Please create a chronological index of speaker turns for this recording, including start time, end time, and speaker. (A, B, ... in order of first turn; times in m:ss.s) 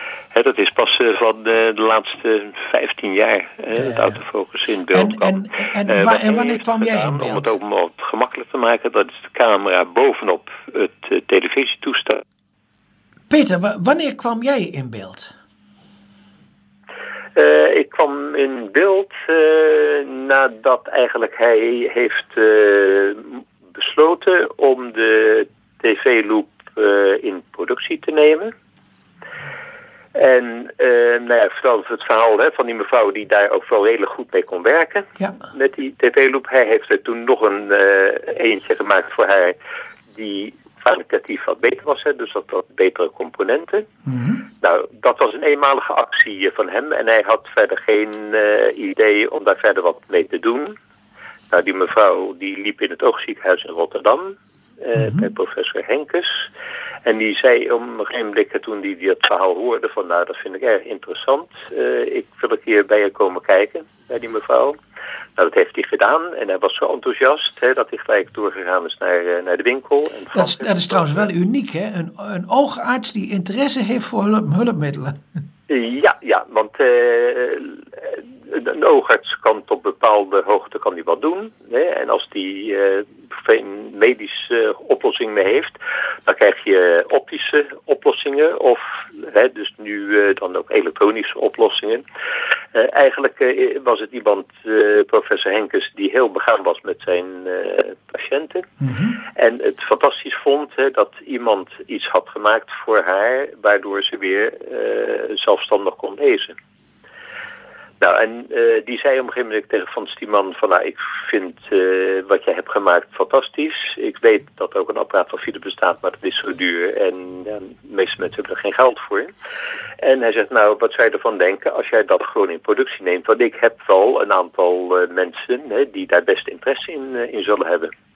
0:00.3-0:12.2 A
0:04.9-0:07.5 B
0:13.3-0:15.3 B
0:17.4-0:28.5 A
0:30.2-0:39.6 A
0:40.1-0:43.9 A
0:44.1-0:44.4 B
0:44.6-0:50.8 A
0:51.5-0:56.4 A
0:55.0-0:55.2 B
0:57.1-1:04.8 A
1:05.4-1:11.3 A
1:10.4-1:15.2 B
1:15.7-1:32.0 A
1:32.7-1:38.7 A
1:38.8-1:39.2 B
1:39.3-1:46.6 A
1:48.0-1:59.3 A
2:00.0-2:07.9 A